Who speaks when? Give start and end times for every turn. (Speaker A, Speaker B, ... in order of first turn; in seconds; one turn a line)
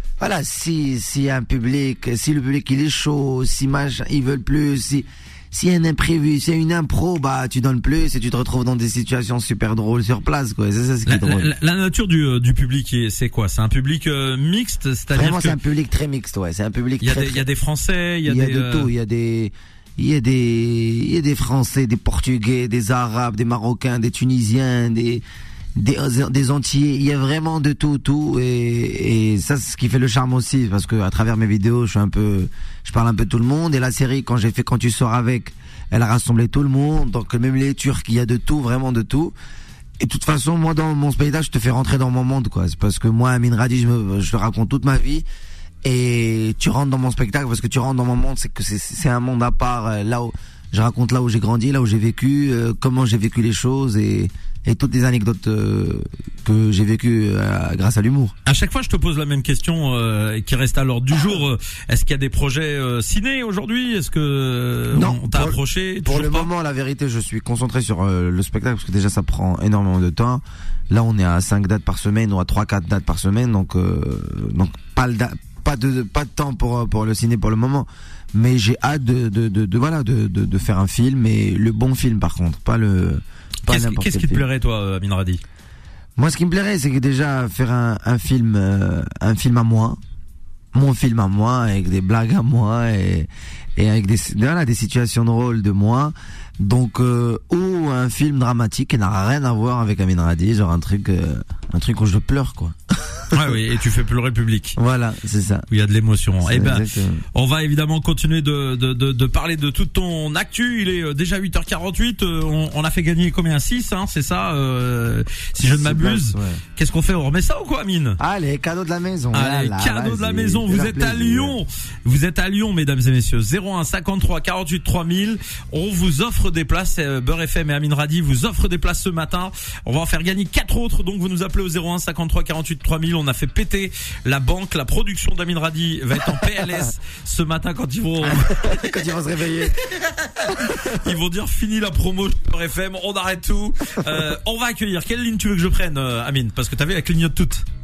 Speaker A: 0.2-11.5
Speaker B: 11.1-15.6
Speaker A: 15.1-17.4
Speaker B: 17.0-18.9
Speaker A: 18.2-25.2
Speaker A: 25.8-39.3
Speaker A: 40.0-45.3
Speaker A: 45.8-58.3
Speaker B: 58.5-66.5
Speaker A: 64.9-84.5
Speaker B: 83.7-85.4
Speaker A: 86.2-90.0
Speaker A: 90.7-103.5
Speaker B: 103.3-104.8
Speaker A: 104.8-105.7
Speaker B: 105.7-118.2
Speaker A: 106.4-107.2
Speaker A: 115.6-116.6
Speaker A: 118.2-121.6
Speaker B: 119.3-138.6
Speaker A: 138.2-139.8
Speaker B: 140.4-147.7
Speaker A: 140.5-141.0